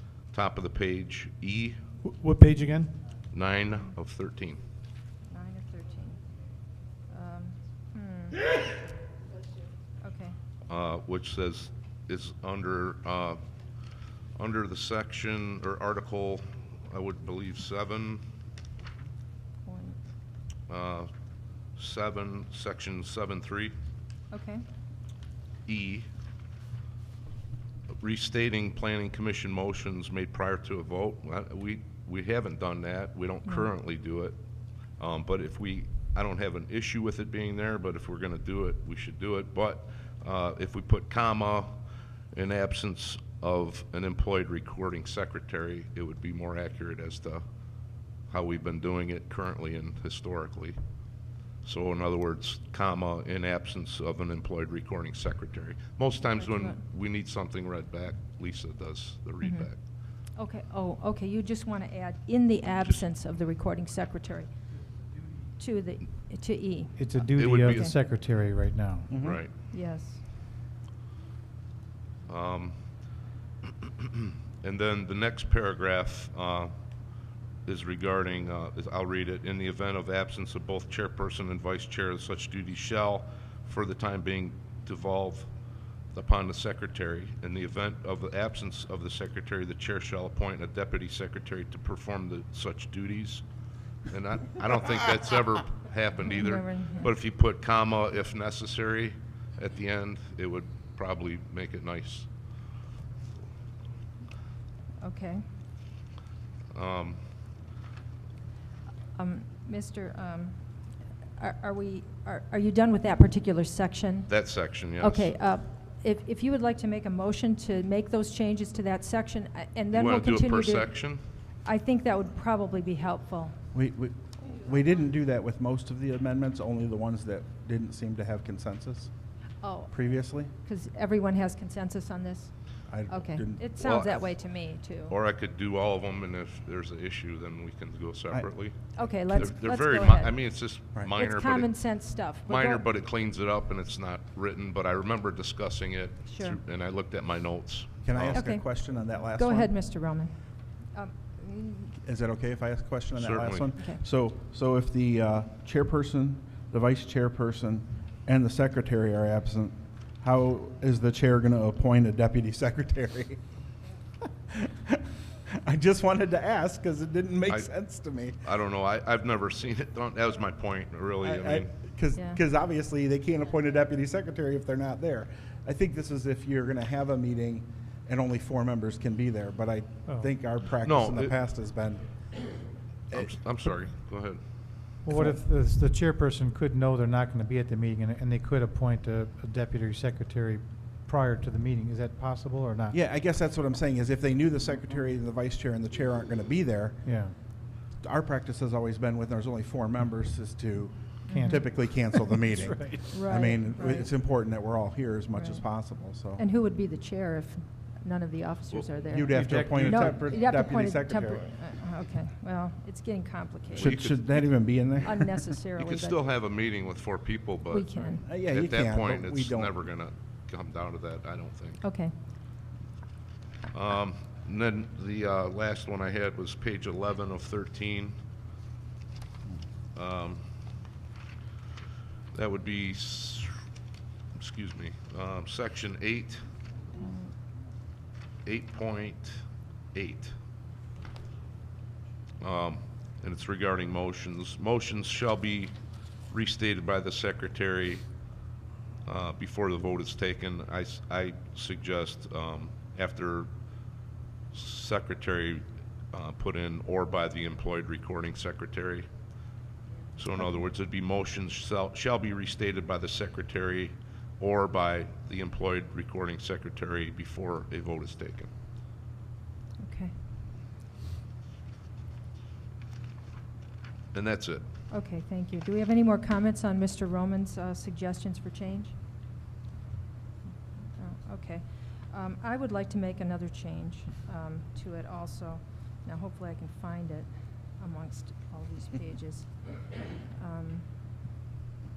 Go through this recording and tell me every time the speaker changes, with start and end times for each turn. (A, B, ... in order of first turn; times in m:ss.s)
0:00.3-0:01.8 A
0:02.0-0:03.0 B
0:03.3-0:04.6 A
0:05.3-0:06.2 C
0:07.1-0:08.5 C
0:10.0-0:10.4 C
0:10.7-0:13.4 A
0:14.4-0:18.2 A
0:19.6-0:20.0 C
0:20.7-0:21.1 A
0:21.8-0:23.7 A
0:24.3-0:24.6 C
0:25.6-0:26.1 A
0:28.0-0:34.3 A
0:35.0-0:47.4 A
0:48.3-0:50.8 A
0:51.6-0:59.8 A
0:56.2-0:56.8 C
0:59.4-0:59.7 C
1:00.3-1:04.5 C
1:05.6-1:07.9 C
1:07.0-1:09.1 B
1:07.3-1:07.9 A
1:09.1-1:09.4 D
1:09.2-1:09.5 A
1:09.7-1:10.2 C
1:12.3-1:12.8 A
1:13.8-1:16.7 A
1:17.6-1:25.5 A
1:26.1-1:33.4 A
1:34.1-1:42.3 A
1:36.2-1:37.1 C
1:45.0-1:45.4 C
1:46.7-1:47.2 A
1:49.2-1:50.6 C
1:51.4-2:01.1 C
1:54.3-1:55.3 A
1:59.9-2:01.2 A
2:01.6-2:03.6 C
2:03.7-2:09.1 D
2:09.6-2:09.9 C
2:09.9-2:10.5 D
2:10.6-2:15.2 C
2:12.9-2:13.6 D
2:13.8-2:14.4 A
2:15.1-2:21.7 A
2:19.0-2:20.5 C
2:21.1-2:22.8 C
2:22.4-2:28.4 A
2:26.2-2:26.6 C
2:28.0-2:29.7 D
2:28.3-2:28.6 C
2:29.4-2:30.3 C
2:30.9-2:31.9 C
2:32.0-2:43.4 D
2:33.1-2:33.7 A
2:44.5-2:45.0 D
2:45.6-2:48.4 D
2:48.4-2:51.7 A
2:51.2-3:02.0 D
2:52.1-2:52.4 C
3:00.8-3:01.3 A
3:03.1-3:03.4 D
3:03.1-3:04.4 A
3:05.0-3:13.0 B
3:05.1-3:05.4 D
3:12.9-3:17.0 D
3:17.0-3:17.3 B
3:18.0-3:26.4 D
3:21.3-3:23.3 B
3:21.3-3:21.6 C
3:23.1-3:24.1 C
3:25.3-3:25.6 C
3:26.4-3:34.0 C
3:29.1-3:31.4 D
3:29.3-3:30.3 B
3:33.7-3:35.5 D
3:33.8-3:34.2 A
3:35.0-3:36.2 C
3:35.8-3:41.8 A
3:37.7-3:38.2 C
3:38.2-3:39.7 D
3:41.8-3:42.1 C
3:43.7-3:48.2 A
3:49.9-3:50.4 A
3:52.3-3:53.6 A
3:54.4-3:56.4 A
3:57.0-3:57.3 C
3:58.4-4:00.3 A
4:02.4-4:05.7 A
4:06.3-4:08.0 A
4:09.0-4:13.5 A
4:14.5-4:19.1 A
4:20.2-4:28.5 A
4:29.8-4:30.1 C
4:34.1-4:34.6 A
4:34.9-4:38.9 C
4:41.0-4:49.5 C
4:50.3-4:50.8 C